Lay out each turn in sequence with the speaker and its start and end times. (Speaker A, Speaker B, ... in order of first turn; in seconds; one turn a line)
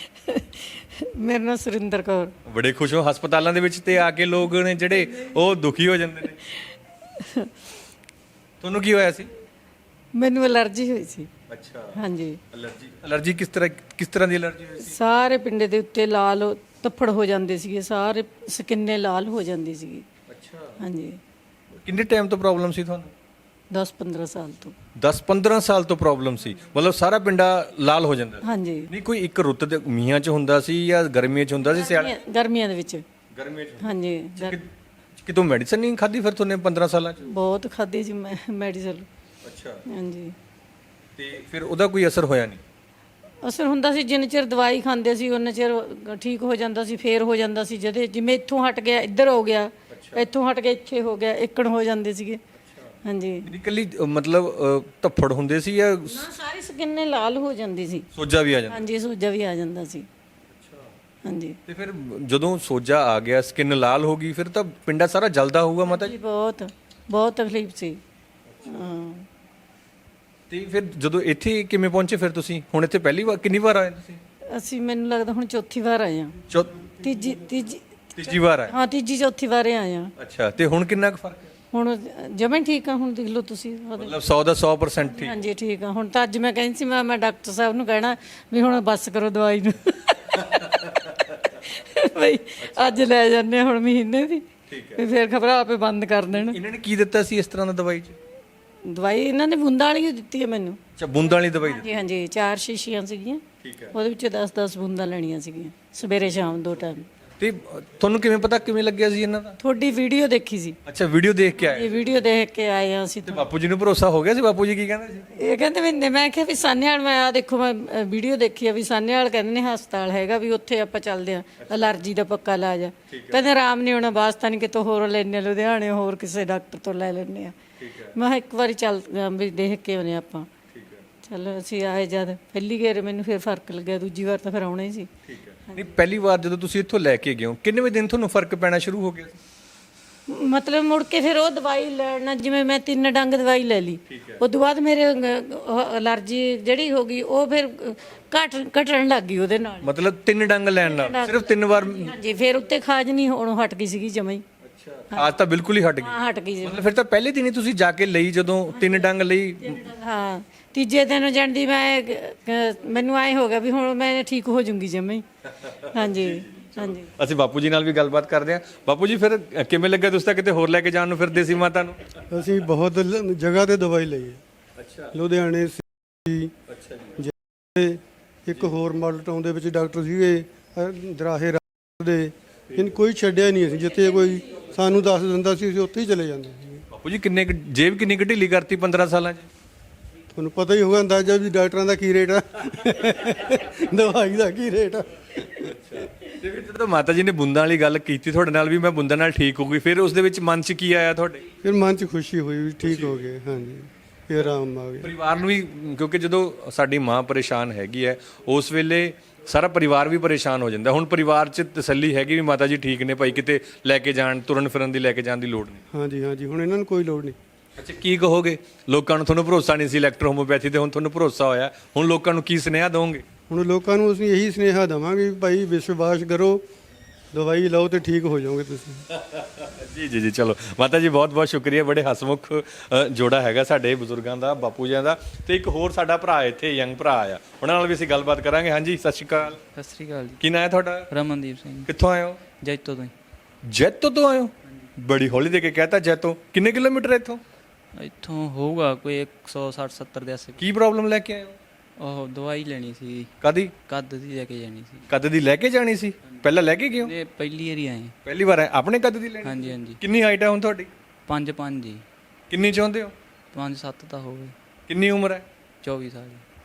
Speaker A: 0.1-2.3
Speaker B: 2.5-6.4
Speaker A: 7.2-7.5
Speaker B: 8.6-9.3
Speaker A: 10.1-11.3
Speaker B: 11.5-12.0
Speaker A: 11.9-12.4
Speaker B: 12.5-14.9
Speaker A: 14.8-20.1
Speaker B: 20.3-20.8
Speaker A: 20.8-21.2
Speaker B: 21.8-23.1
Speaker A: 23.7-24.8
Speaker B: 25.0-32.1
Speaker A: 28.4-28.9
Speaker A: 31.7-33.0
Speaker B: 33.3-34.7
Speaker A: 33.8-34.6
Speaker B: 35.2-37.2
Speaker A: 37.2-39.1
Speaker B: 39.4-39.8
Speaker A: 39.9-40.4
Speaker B: 41.2-42.6
Speaker A: 43.4-52.4
Speaker B: 49.9-50.2
Speaker B: 52.5-56.3
Speaker A: 53.0-53.5
Speaker A: 56.1-58.1
Speaker B: 58.1-58.9
Speaker A: 58.7-60.1
Speaker B: 60.5-60.9
Speaker A: 61.2-61.6
Speaker B: 61.7-66.1
Speaker A: 65.9-68.0
Speaker B: 68.5-68.9
Speaker A: 68.7-69.2
Speaker B: 70.5-74.2
Speaker A: 74.5-76.4
Speaker B: 76.5-76.8
Speaker A: 77.0-80.1
Speaker B: 78.2-78.7
Speaker B: 80.2-81.5
Speaker A: 81.7-84.1
Speaker B: 84.0-85.4
Speaker A: 85.0-96.6
Speaker B: 92.6-93.0
Speaker B: 94.7-95.0
Speaker B: 96.5-98.2
Speaker A: 98.8-100.8
Speaker B: 101.0-101.8
Speaker A: 101.6-107.0
Speaker B: 103.6-103.9
Speaker B: 107.4-109.6
Speaker A: 109.6-110.8
Speaker B: 110.8-112.1
Speaker A: 111.6-113.4
Speaker B: 113.3-115.3
Speaker A: 115.4-127.6
Speaker B: 121.6-121.9
Speaker B: 123.1-123.5
Speaker B: 127.8-128.1
Speaker A: 128.1-130.5
Speaker B: 130.7-131.0
Speaker A: 131.2-135.1
Speaker B: 135.2-139.4
Speaker A: 140.3-149.9
Speaker B: 144.1-144.4
Speaker B: 149.8-152.1
Speaker A: 150.8-154.4
Speaker B: 154.6-159.8
Speaker A: 156.0-156.8
Speaker A: 159.6-165.2
Speaker B: 165.7-172.2
Speaker A: 165.9-167.1
Speaker C: 172.3-174.4
Speaker B: 174.8-175.2
Speaker C: 175.1-176.5
Speaker B: 176.7-177.2
Speaker C: 177.2-186.8
Speaker B: 182.7-182.9
Speaker B: 186.9-189.5
Speaker C: 190.3-195.8
Speaker B: 195.6-201.4
Speaker C: 201.6-205.1
Speaker B: 202.8-203.4
Speaker B: 204.3-215.8
Speaker C: 215.9-217.3
Speaker B: 217.8-223.2
Speaker C: 223.5-226.6
Speaker C: 227.3-229.0
Speaker B: 229.1-239.6
Speaker D: 239.7-240.4
Speaker B: 240.4-241.1
Speaker D: 241.1-241.9
Speaker B: 241.9-242.4
Speaker D: 242.6-243.1
Speaker B: 243.6-247.4
Speaker D: 247.9-250.7
Speaker B: 250.6-251.6
Speaker D: 252.0-253.3
Speaker B: 253.4-253.7
Speaker D: 253.8-255.1
Speaker B: 255.1-257.1
Speaker D: 257.0-258.1
Speaker B: 258.2-260.9
Speaker D: 259.4-260.0
Speaker D: 261.3-262.0
Speaker B: 262.5-263.1
Speaker D: 263.5-264.5
Speaker B: 264.9-265.4
Speaker D: 265.8-266.4